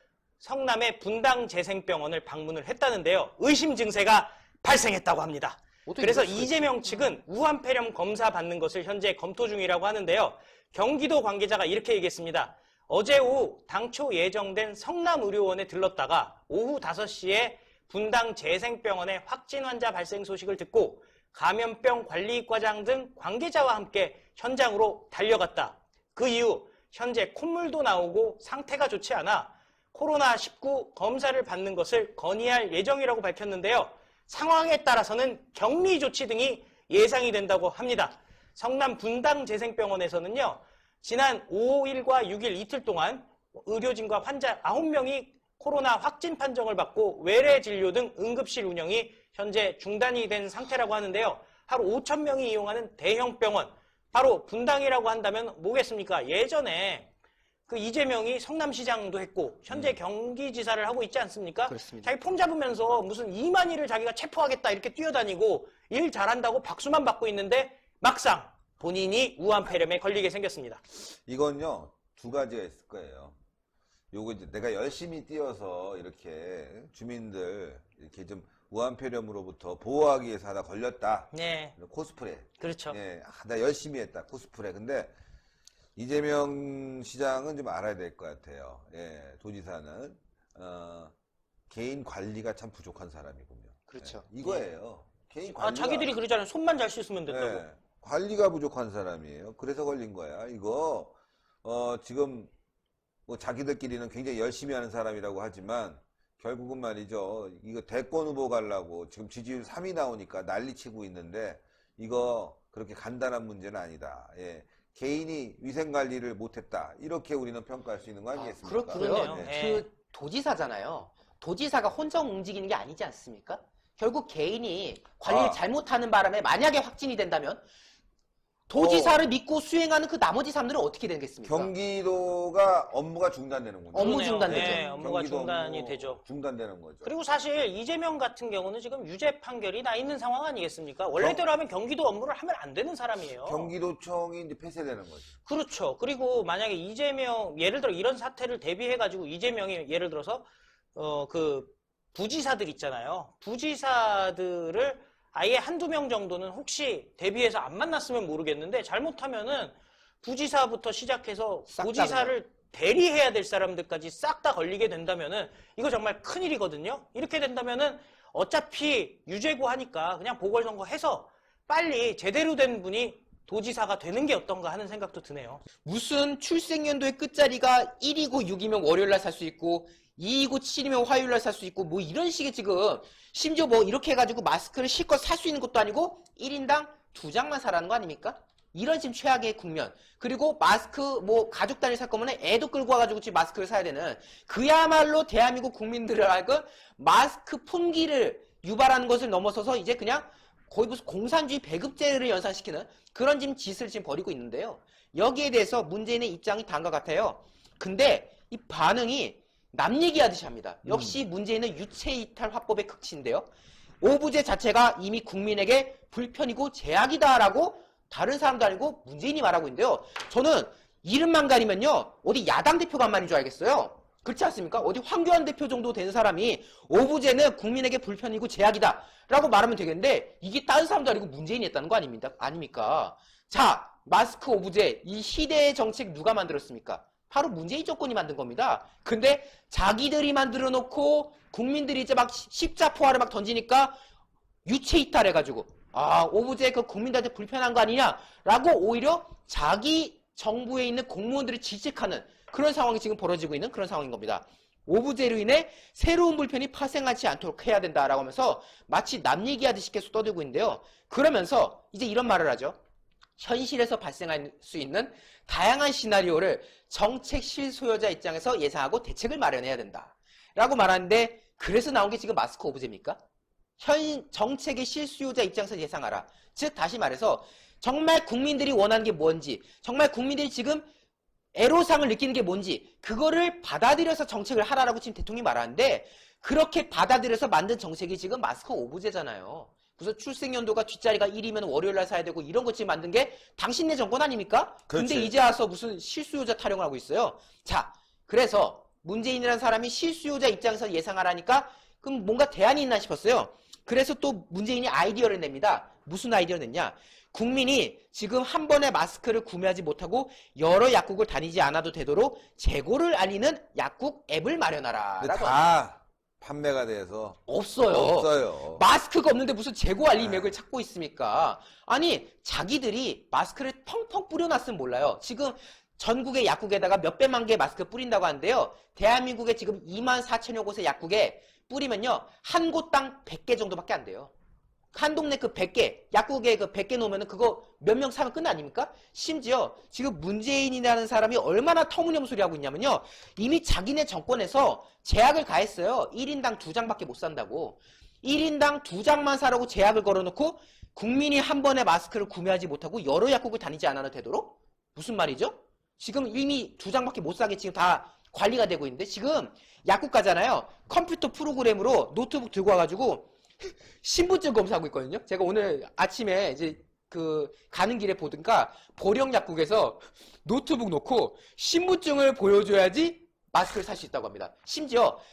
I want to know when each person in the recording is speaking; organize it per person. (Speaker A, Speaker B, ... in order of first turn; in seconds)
Speaker A: 0.4-57.1, 57.7-70.8, 81.3-81.8, 82.6-83.0, 95.5-97.7, 118.9-119.9, 133.9-136.2, 137.0-143.7, 145.5-175.6
Speaker B: 5.9-6.5, 61.7-62.1, 93.9-94.7, 118.3-127.6, 128.7-131.7, 133.9-134.8, 161.7-162.4, 175.8-213.5, 214.0-244.0, 244.7-262.8, 263.4-273.2, 273.8-280.9, 281.6-315.6, 317.5-334.3, 334.9-363.3, 364.0-375.2
Speaker C: 71.3-73.3, 74.1-85.1, 86.0-91.1, 91.7-96.1, 97.3-102.5, 103.3-119.5, 125.2-125.6, 128.8-129.2, 131.4-137.1, 143.4-145.3, 210.8-211.2, 294.9-295.3, 315.2-317.4, 317.9-318.8, 320.2-320.6